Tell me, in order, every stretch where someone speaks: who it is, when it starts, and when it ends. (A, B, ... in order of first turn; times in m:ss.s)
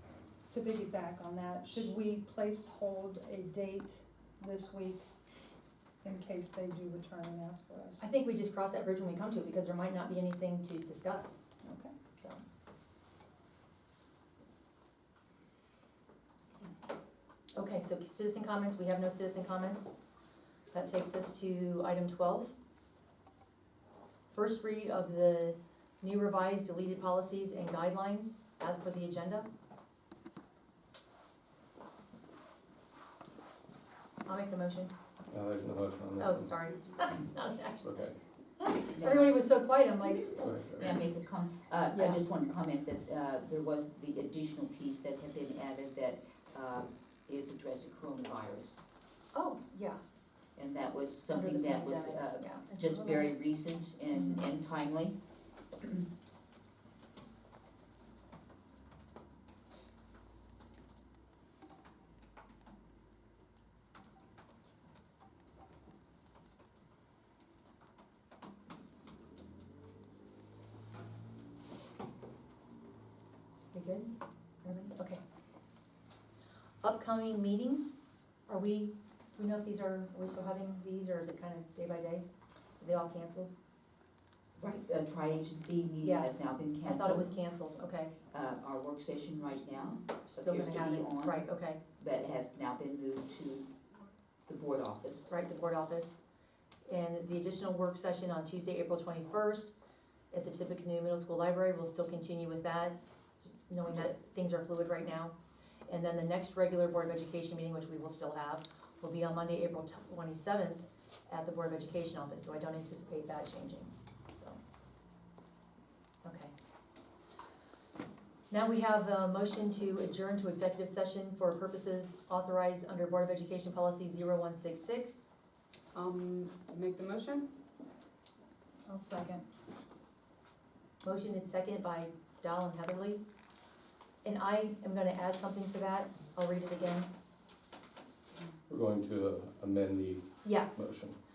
0:00.5-0:05.0 A
0:06.0-0:08.1 A
0:08.0-0:11.4 B
0:11.6-0:12.0 A
0:12.2-0:12.4 B
0:17.6-0:20.0 B
0:20.7-0:22.6 B
0:24.3-0:29.5 B
0:34.3-0:34.9 B
0:35.3-0:36.5 C
0:36.2-0:38.0 B
0:37.8-0:38.2 C
0:38.6-0:40.7 B
0:39.0-0:39.4 D
0:40.4-0:41.0 C
0:40.8-0:48.8 D
0:41.9-0:42.2 B
0:49.3-0:50.0 B
0:50.6-0:55.2 D
0:51.3-0:53.3 B
1:13.7-1:14.1 B
1:14.6-1:15.2 B
1:16.8-1:18.0 B
1:18.5-1:22.3 B
1:22.8-1:23.5 B
1:24.6-1:27.4 D
1:26.0-1:28.2 B
1:28.3-1:31.5 D
1:30.2-1:31.8 B
1:32.0-1:33.7 D
1:34.5-1:35.3 D
1:35.3-1:36.2 B
1:36.9-1:39.7 B
1:40.3-1:45.4 B
1:45.9-1:54.6 B
1:56.2-1:56.5 B
1:58.5-2:05.3 B
2:05.9-2:07.4 A
2:08.8-2:09.5 A
2:11.0-2:13.2 B
2:14.2-2:17.1 B
2:18.7-2:21.2 C
2:20.4-2:20.7 B